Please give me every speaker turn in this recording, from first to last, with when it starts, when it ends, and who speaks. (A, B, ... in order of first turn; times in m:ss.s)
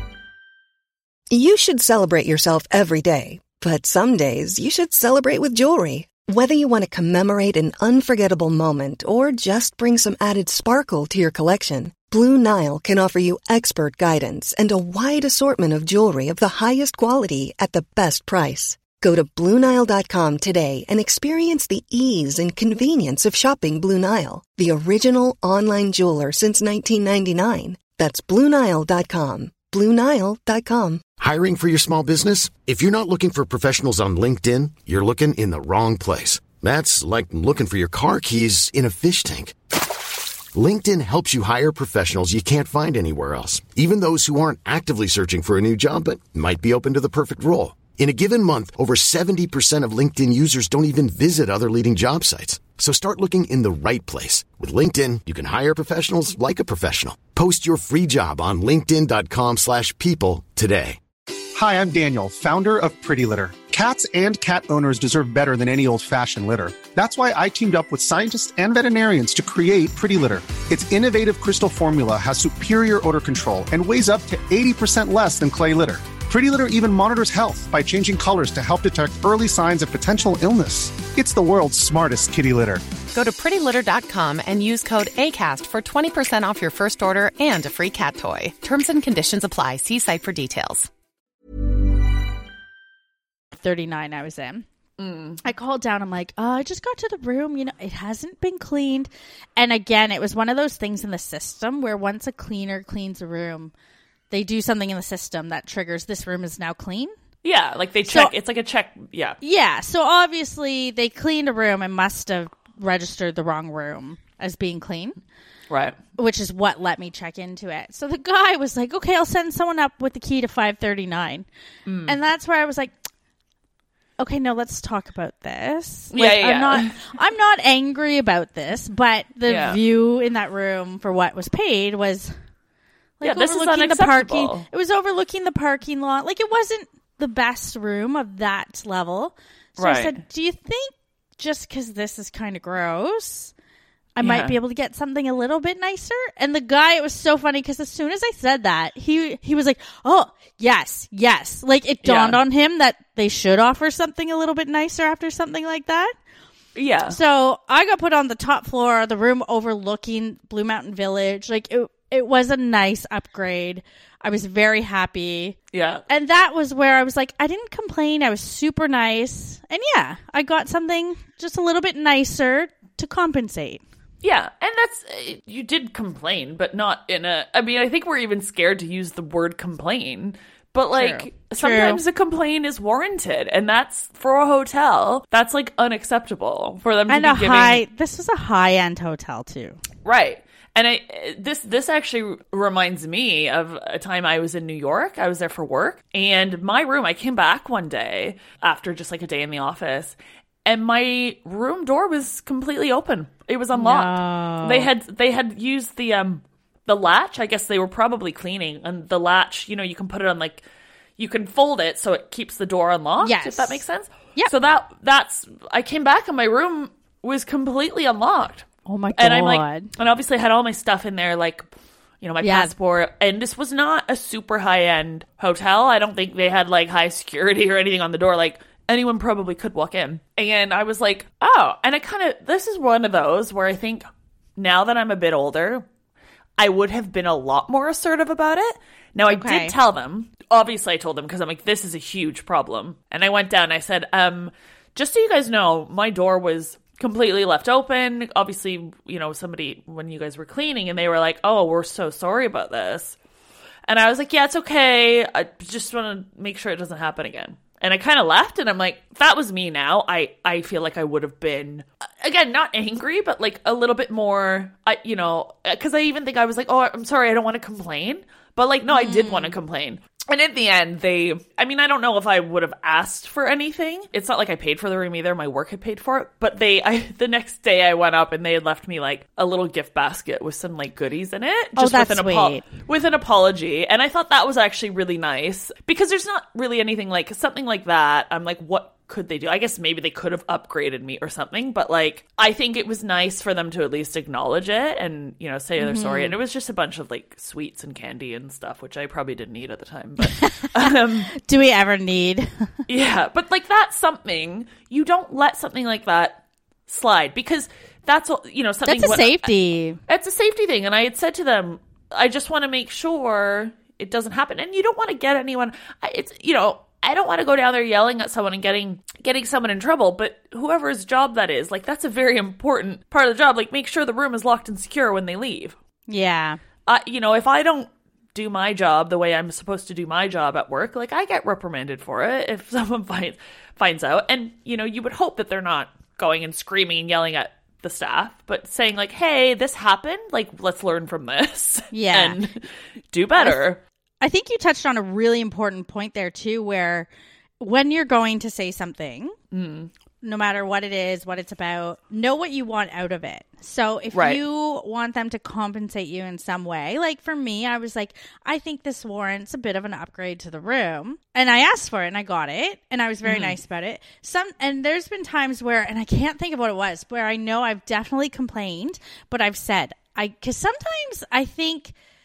0:01.3-0:31.1 A
0:31.2-0:39.6 B
0:40.5-1:01.0 B
1:01.6-1:22.9 C
1:23.1-1:30.9 D
1:33.6-1:34.6 E
1:35.0-1:35.4 F
1:35.4-1:43.7 E
1:44.3-1:47.1 E
1:47.4-1:49.4 F
1:48.1-1:48.3 E
1:49.4-1:55.2 E
1:55.7-1:56.0 F
1:56.2-2:01.5 E
2:01.9-2:02.2 F
2:02.1-2:03.0 E
2:04.2-2:12.4 E
2:06.1-2:07.0 F
2:09.4-2:09.8 F
2:13.2-2:23.5 E
2:13.2-2:14.7 F
2:19.8-2:20.2 F
2:24.2-2:36.1 E
2:24.2-2:24.6 F
2:32.0-2:32.4 F
2:36.8-2:37.2 F
2:37.1-2:45.6 E
2:45.7-2:46.0 F
2:46.1-2:53.8 E
2:54.2-3:07.8 F
3:00.9-3:02.0 E
3:07.1-3:09.8 E
3:10.0-3:30.6 F
3:23.7-3:24.9 E
3:31.2-3:41.7 F
3:33.2-3:33.8 E
3:38.9-3:39.9 E
3:42.2-3:54.1 F
3:42.4-3:42.7 E
3:54.6-3:55.8 F
3:56.6-4:13.2 F
3:59.3-3:59.7 E
4:13.9-5:01.3 F
4:28.9-4:29.6 E
4:41.8-4:42.7 E
4:55.8-4:56.4 E
5:00.2-5:02.7 E
5:02.9-5:09.5 F
5:08.9-5:10.0 E
5:10.1-5:25.8 F
5:26.1-5:26.6 E
5:26.9-5:43.8 F
5:41.9-5:42.4 E
5:44.2-5:47.1 E
5:47.6-5:49.4 E
5:49.5-5:49.9 F
5:50.2-6:11.9 E
5:54.1-5:54.4 F
6:03.2-6:03.6 F